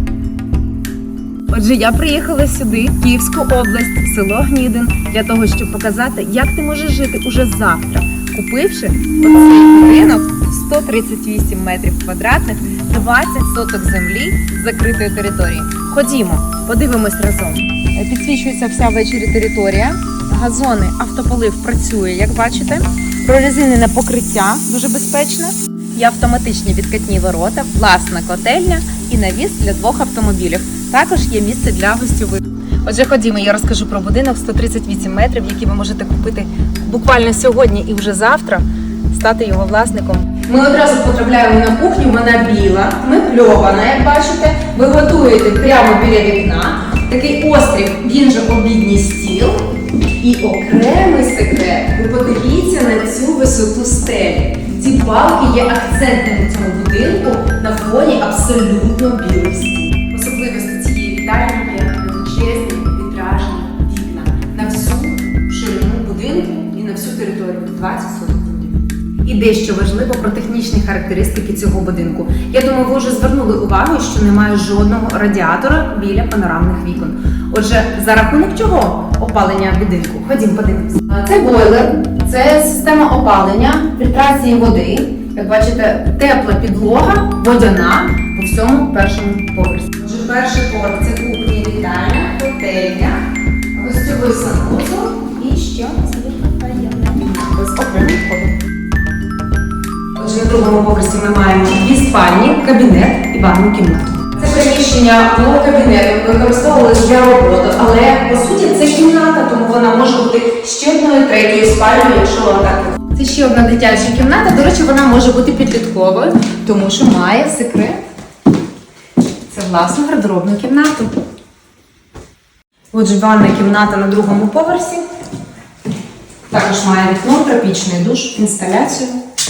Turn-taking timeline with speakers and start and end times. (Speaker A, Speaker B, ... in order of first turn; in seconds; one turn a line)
Speaker A: 1.5-93.2
Speaker A: 93.7-98.5
Speaker A: 100.2-118.0
Speaker A: 119.5-121.1
Speaker A: 122.9-125.0
Speaker A: 126.5-129.2